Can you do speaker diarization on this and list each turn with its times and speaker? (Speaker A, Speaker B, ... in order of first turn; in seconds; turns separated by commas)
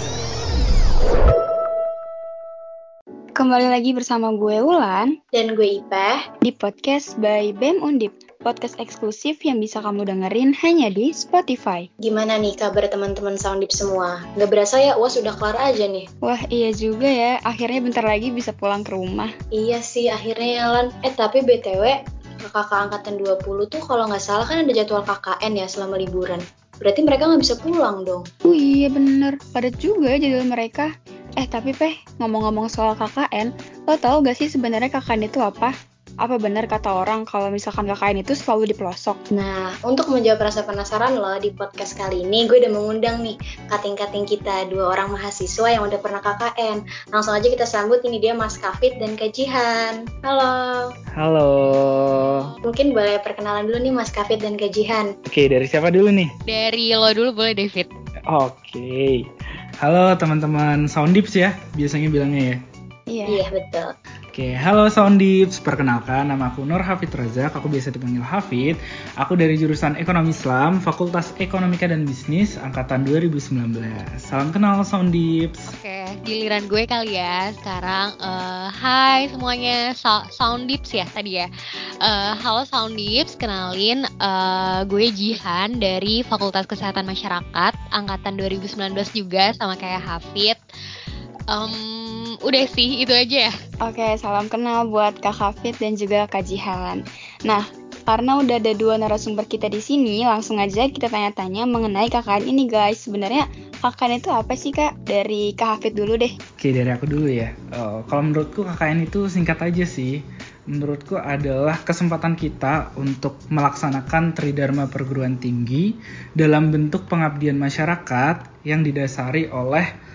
Speaker A: 3.4-5.2, Speaker B: 5.3-6.3, Speaker A: 6.4-11.9, Speaker B: 12.0-16.1, Speaker A: 16.2-19.3, Speaker B: 19.6-28.3, Speaker A: 28.4-39.2, Speaker B: 39.3-50.9, Speaker C: 51.2-52.5, Speaker B: 52.6-55.1, Speaker C: 55.3-56.3, Speaker D: 56.5-57.9, Speaker C: 58.3-59.3, Speaker C: 59.8-62.6, Speaker A: 63.1-63.4, Speaker B: 63.3-63.9, Speaker C: 64.3-75.7, Speaker D: 75.7-81.5, Speaker D: 82.0-90.6, Speaker D: 91.5-93.5, Speaker A: 93.8-106.3, Speaker C: 106.6-119.9